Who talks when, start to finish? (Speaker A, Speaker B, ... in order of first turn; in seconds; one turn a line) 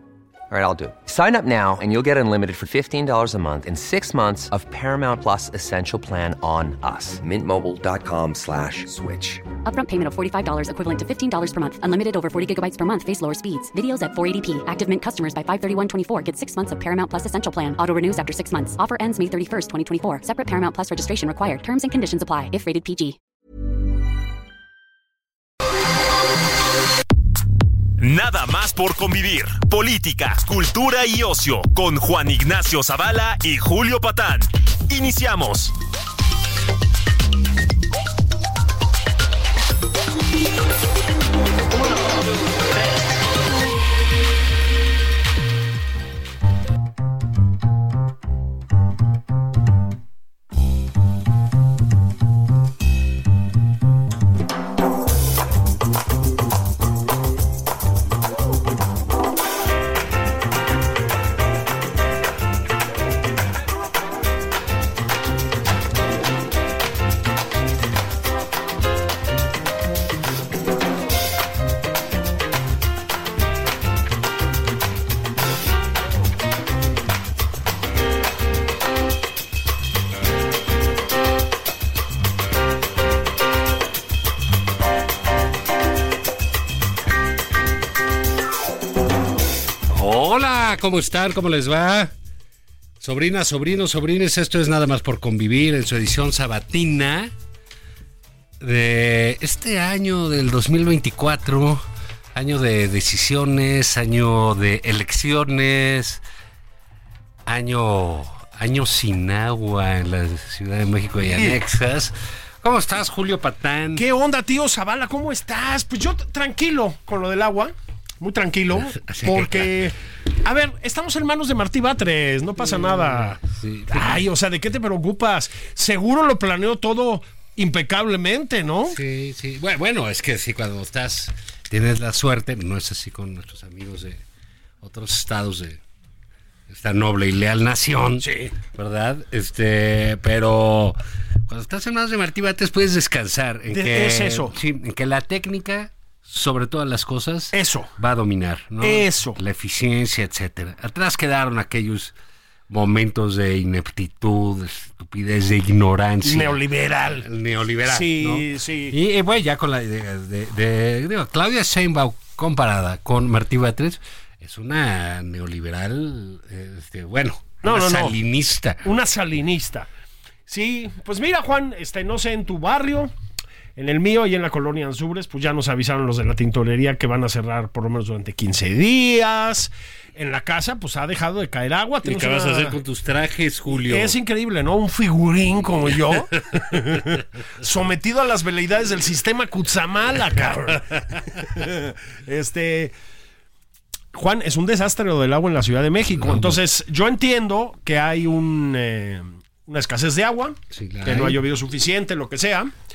Speaker A: 0.5-9.4
Speaker B: 9.6-23.2
Speaker C: 28.0-35.7
Speaker D: 89.9-92.1
Speaker D: 93.0-97.3
Speaker D: 98.6-106.2
Speaker D: 107.5-114.0
Speaker E: 113.9-129.0
Speaker D: 118.7-119.9
Speaker D: 122.6-124.3
Speaker D: 128.9-134.2
Speaker D: 134.8-135.8
Speaker D: 136.7-152.2
Speaker E: 138.2-138.5
Speaker E: 143.7-144.6
Speaker E: 147.5-147.9
Speaker E: 148.8-149.4
Speaker D: 152.7-168.8
Speaker E: 156.2-157.3
Speaker E: 157.8-159.0
Speaker E: 167.6-168.2
Speaker E: 168.8-169.9
Speaker E: 170.5-173.1
Speaker E: 173.8-182.8
Speaker D: 182.0-184.2
Speaker E: 183.7-192.9
Speaker D: 185.9-186.6
Speaker E: 194.1-202.7
Speaker D: 196.2-196.6
Speaker D: 200.7-201.4